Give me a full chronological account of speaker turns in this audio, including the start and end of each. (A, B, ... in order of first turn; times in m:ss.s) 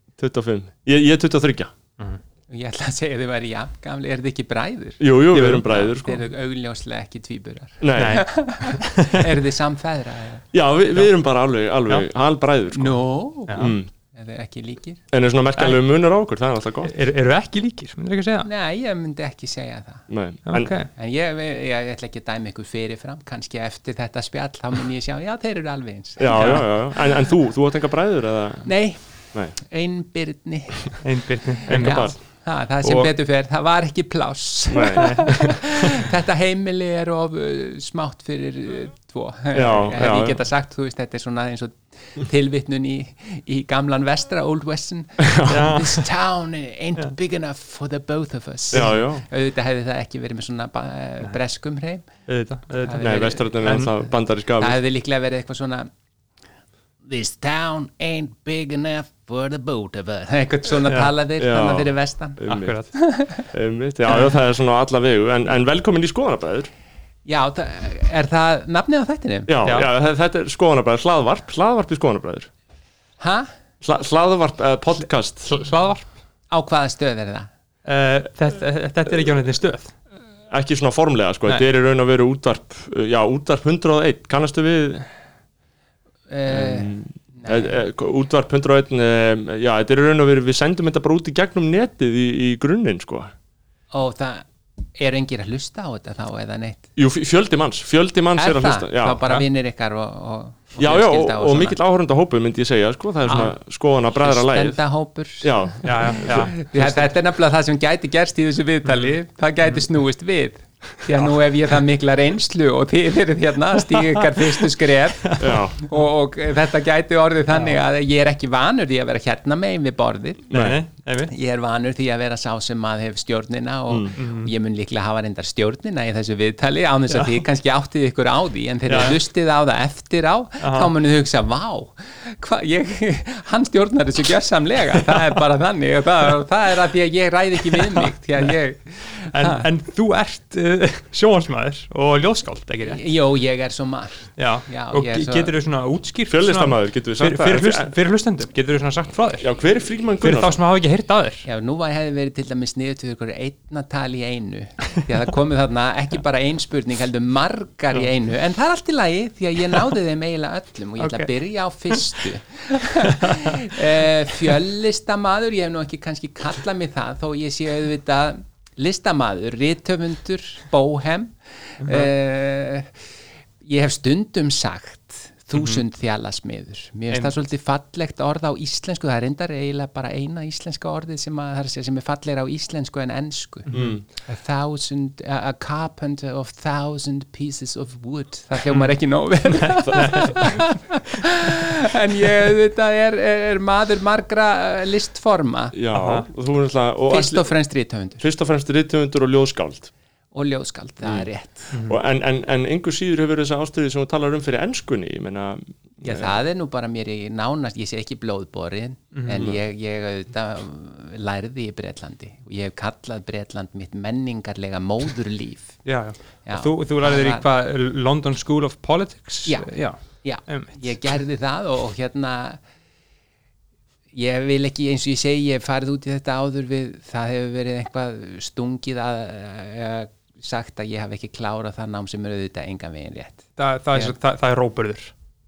0:00.2-0:01.7 A
0:02.5-0:10.4 B
0:05.0-0:06.2 A
0:05.3-0:05.8 C
0:07.8-0:08.2 A
0:08.0-0:09.3 C
0:10.5-0:13.0 A
0:12.7-0:15.0 B
0:13.5-0:13.9 A
0:15.1-0:16.9 A
0:16.8-0:18.5 C
0:18.4-0:20.1 B
0:20.1-0:20.8 A
0:20.5-0:20.9 C
0:20.9-0:26.6 B
0:26.2-0:28.7 A
0:26.3-0:26.7 C
0:28.6-0:29.0 B
0:29.5-0:31.1 B
0:31.0-0:32.1 C
0:31.6-0:52.1 B
0:31.7-0:32.2 A
0:32.8-0:33.1 A
0:34.7-0:35.6 A
0:35.0-0:35.5 C
0:39.5-0:40.4 A
0:45.2-0:45.7 A
0:45.5-0:46.1 C
0:48.7-0:49.2 A
0:52.3-0:53.9 C
0:52.8-0:53.4 B
0:53.0-0:54.8 A
0:54.6-0:55.9 B
0:57.0-1:02.4 B
1:00.9-1:01.1 C
1:01.4-1:02.8 A
1:02.5-1:02.9 C
1:03.0-1:03.4 B
1:03.5-1:06.7 A
1:07.3-1:09.5 B
1:09.5-1:12.5 A
1:13.2-1:13.5 B
1:13.8-1:15.5 A
1:15.5-1:16.1 C
1:16.5-1:17.5 B
1:17.8-1:19.9 C
1:20.5-1:25.1 A
1:26.3-1:27.8 B
1:26.5-1:33.3 A
1:33.9-1:36.9 B
1:37.0-1:39.3 A
1:38.4-1:41.8 B
1:40.8-1:44.8 A
1:44.1-2:00.5 B
1:45.4-1:47.1 A
1:45.8-1:46.6 C
1:53.9-1:54.2 C
1:55.3-1:55.6 C
1:55.4-1:55.8 A
2:00.5-2:01.3 C
2:00.5-2:00.8 A
2:01.3-2:19.7 B
2:03.9-2:04.1 A
2:04.2-2:04.5 C
2:07.1-2:07.4 C
2:08.9-2:09.2 C
2:10.6-2:10.9 C
2:17.7-2:18.6 C
2:19.3-2:23.0 C
2:22.8-2:25.5 B
2:24.4-2:29.5 C
2:26.3-2:27.9 A
2:29.4-2:30.6 A
2:30.2-2:31.5 C
2:31.4-2:53.0 B
2:41.0-2:41.3 C
2:43.0-2:43.8 C
2:51.8-2:52.1 C
2:53.6-3:15.8 B
2:55.6-2:55.8 C
3:03.7-3:03.9 C
3:03.7-3:04.0 A
3:09.6-3:10.6 C
3:09.8-3:10.5 A
3:15.7-3:17.5 A
3:15.9-3:16.3 C
3:17.1-3:18.2 B
3:18.2-3:19.9 A
3:20.3-3:21.8 B
3:21.7-3:22.0 C
3:21.9-3:26.3 A
3:26.0-3:35.8 B
3:29.1-3:29.4 C
3:29.3-3:29.6 A
3:35.8-3:41.1 C
3:36.5-3:37.4 B
3:39.5-3:42.6 B
3:44.1-3:54.1 B
3:53.6-3:55.1 C